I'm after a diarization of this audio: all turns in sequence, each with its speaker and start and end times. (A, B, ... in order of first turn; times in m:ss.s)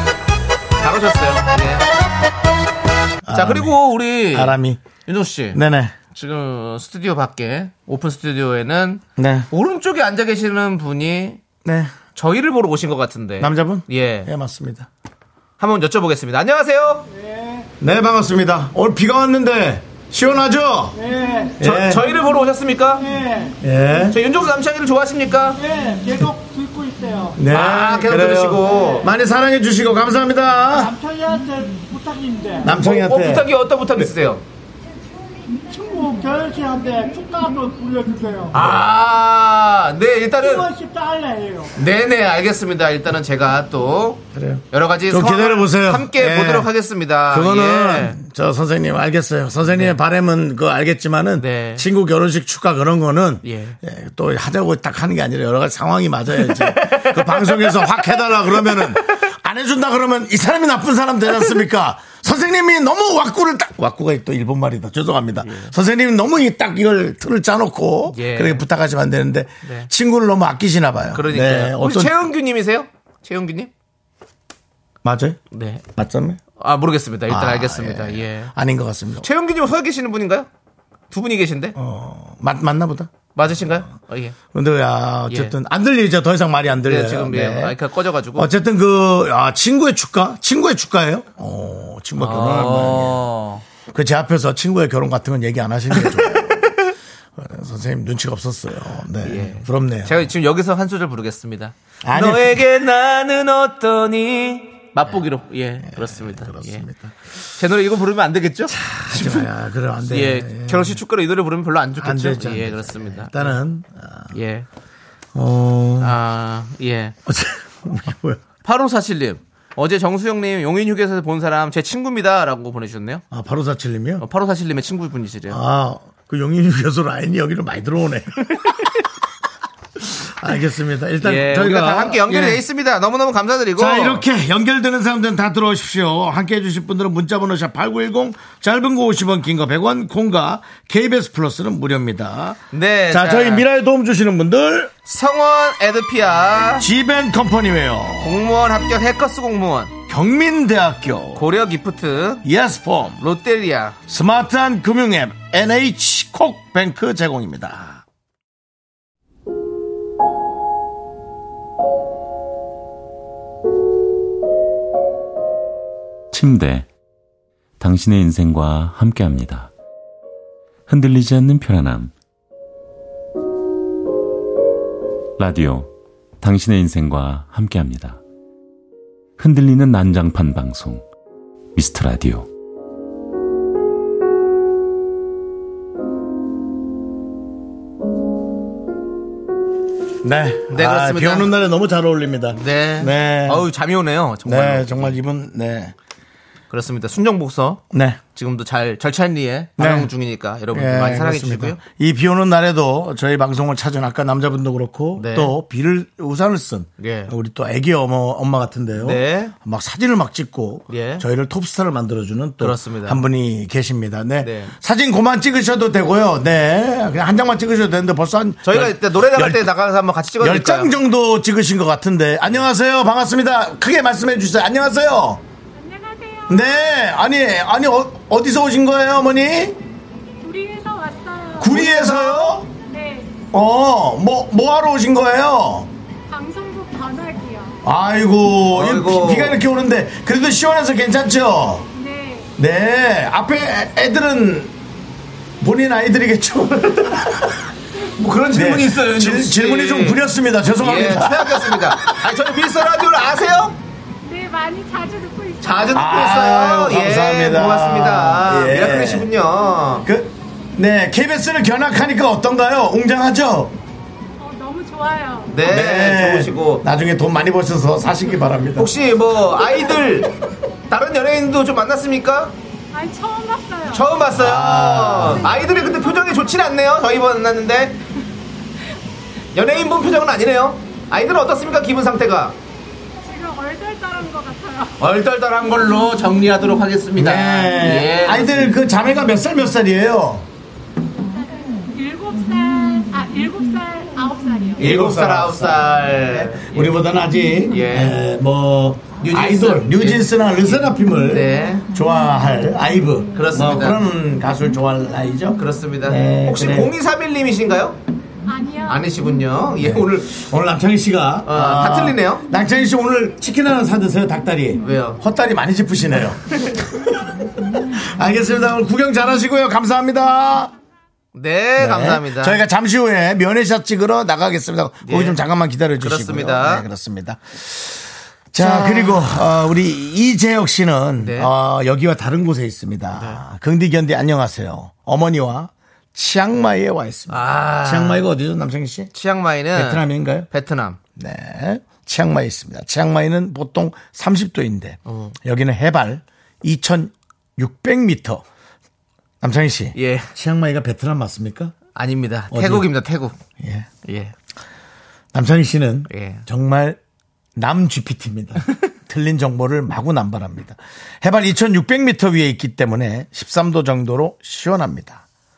0:00.8-0:01.9 A
0:03.2-0:04.8 B
0:03.3-0:05.6 A
0:05.5-0:06.0 B
0:06.1-0:11.4 A
0:09.2-0:09.5 B
0:11.6-0:12.0 B
0:12.2-0:14.3 A
0:13.4-0:14.9 B
0:15.6-0:17.1 A
0:17.1-0:17.7 C
0:17.8-0:21.0 B
0:21.0-0:21.6 C
0:21.6-0:22.0 B
0:21.6-0:23.0 A
0:23.0-0:23.6 C
0:23.6-0:24.2 B
0:24.1-0:25.6 A
0:25.6-0:27.4 C
0:27.4-0:31.0 B
0:27.5-0:29.1 A
0:28.6-0:29.2 C
0:30.7-0:32.8 C
0:32.6-0:34.1 B
0:32.7-0:34.4 A
0:35.5-0:38.6 C
0:38.5-0:40.7 A
0:40.4-0:41.7 C
0:41.8-0:48.2 A
0:44.3-0:46.7 B
0:47.3-1:12.1 B
0:49.7-0:50.0 A
0:51.4-0:51.8 A
0:53.4-0:53.8 A
0:56.4-0:58.9 A
1:05.4-1:05.7 A
1:08.1-1:08.6 A
1:09.6-1:09.9 A
1:11.1-1:13.7 A
1:15.0-1:15.4 B
1:15.5-1:15.8 A
1:15.9-1:16.4 B
1:16.6-1:18.5 A
1:17.3-1:19.3 B
1:19.2-1:20.5 A
1:21.1-1:21.8 A
1:21.8-1:23.1 B
1:23.4-1:24.4 A
1:24.5-1:27.8 B
1:25.3-1:25.6 A
1:26.9-1:28.5 A
1:28.4-1:33.3 B
1:32.2-1:33.6 A
1:33.9-1:36.8 B
1:37.4-1:40.2 B
1:39.2-1:46.9 A
1:42.0-1:42.6 B
1:45.8-1:47.1 B
1:47.6-1:49.5 A
1:48.7-1:51.0 B
1:50.0-1:53.6 A
1:52.0-1:54.3 B
1:54.3-1:54.7 A
1:55.3-1:56.2 B
1:56.0-1:57.2 A
1:57.3-1:58.4 B
1:58.6-2:03.2 A
2:03.3-2:04.2 B
2:04.2-2:05.6 A
2:05.5-2:08.9 B
2:10.0-2:12.6 B
2:11.2-2:14.2 A
2:13.8-2:24.9 B
2:22.7-2:23.6 A
2:25.1-2:26.9 A
2:26.8-2:28.4 B
2:28.2-2:29.9 A
2:30.1-2:31.5 B
2:31.4-2:32.4 A
2:32.4-2:33.2 B
2:33.2-2:34.0 A
2:34.1-2:38.0 B
2:46.3-2:46.9 D
2:47.8-2:49.7 D
2:50.9-2:52.1 D
2:55.4-2:58.2 D
2:59.4-3:01.0 D
3:01.8-3:02.5 D
3:10.2-3:13.7 B
3:10.7-3:11.5 A
3:12.5-3:15.2 A
3:14.4-3:16.0 B
3:16.7-3:17.8 A
3:17.9-3:18.2 B
3:18.4-3:21.8 A
3:19.8-3:20.1 B
3:20.7-3:39.7 B
3:25.2-3:25.6 A
3:27.0-3:27.3 A
3:29.0-3:29.5 A
3:30.9-3:31.2 A
3:32.6-3:33.2 A
3:34.4-3:34.7 A
3:38.6-3:40.9 A
3:40.4-3:45.4 B
3:45.8-3:47.0 E
3:46.5-3:49.8 B
3:50.4-3:52.1 E
3:51.6-3:52.7 B
3:51.7-3:52.6 A
3:52.6-3:53.4 E
3:53.5-3:55.9 B
3:56.3-3:57.8 E
3:57.8-4:01.9 B
3:58.7-3:59.6 A
4:01.9-4:02.5 E
4:02.6-4:04.7 B
4:05.6-4:07.7 B
4:08.2-4:10.2 A
4:08.5-4:12.3 B
4:10.8-4:13.8 A
4:14.2-4:16.3 E
4:15.6-4:20.1 A
4:15.9-4:19.3 B
4:20.0-4:23.8 B
4:24.4-4:25.6 E
4:25.5-4:26.8 A
4:25.6-4:28.9 B
4:28.8-4:30.3 A
4:30.9-4:32.5 A
4:32.9-4:34.1 E
4:33.9-4:38.0 A
4:34.3-4:35.5 B
4:35.2-4:36.6 E
4:39.5-4:42.6 A
4:43.2-4:45.0 E
4:45.0-4:48.8 A
4:47.2-4:50.5 B
4:51.3-4:54.8 E
4:54.8-4:57.0 A
4:54.8-5:06.9 B
4:57.7-4:58.2 A
4:59.2-5:01.8 A
5:03.4-5:04.0 A
5:05.6-5:08.0 A
5:08.5-5:09.2 E
5:08.9-5:10.4 A
5:09.8-5:20.7 B
5:11.5-5:12.4 A
5:14.8-5:15.2 A
5:21.3-5:22.6 A
5:21.8-5:39.1 B
5:25.0-5:25.4 A
5:26.0-5:26.9 A
5:28.6-5:29.3 A
5:31.2-5:31.5 A
5:33.2-5:33.4 A
5:37.3-5:38.2 A
5:39.1-5:41.0 A
5:39.7-5:40.5 B
5:41.2-5:48.4 B
5:45.1-5:45.4 A
5:49.4-5:51.8 B
5:50.0-5:50.3 A
5:52.0-5:53.4 A
5:52.5-5:52.9 B
5:53.6-5:53.9 B
5:54.0-5:54.3 A
5:55.3-5:57.0 B
5:56.1-5:56.5 A
5:57.6-6:05.2 B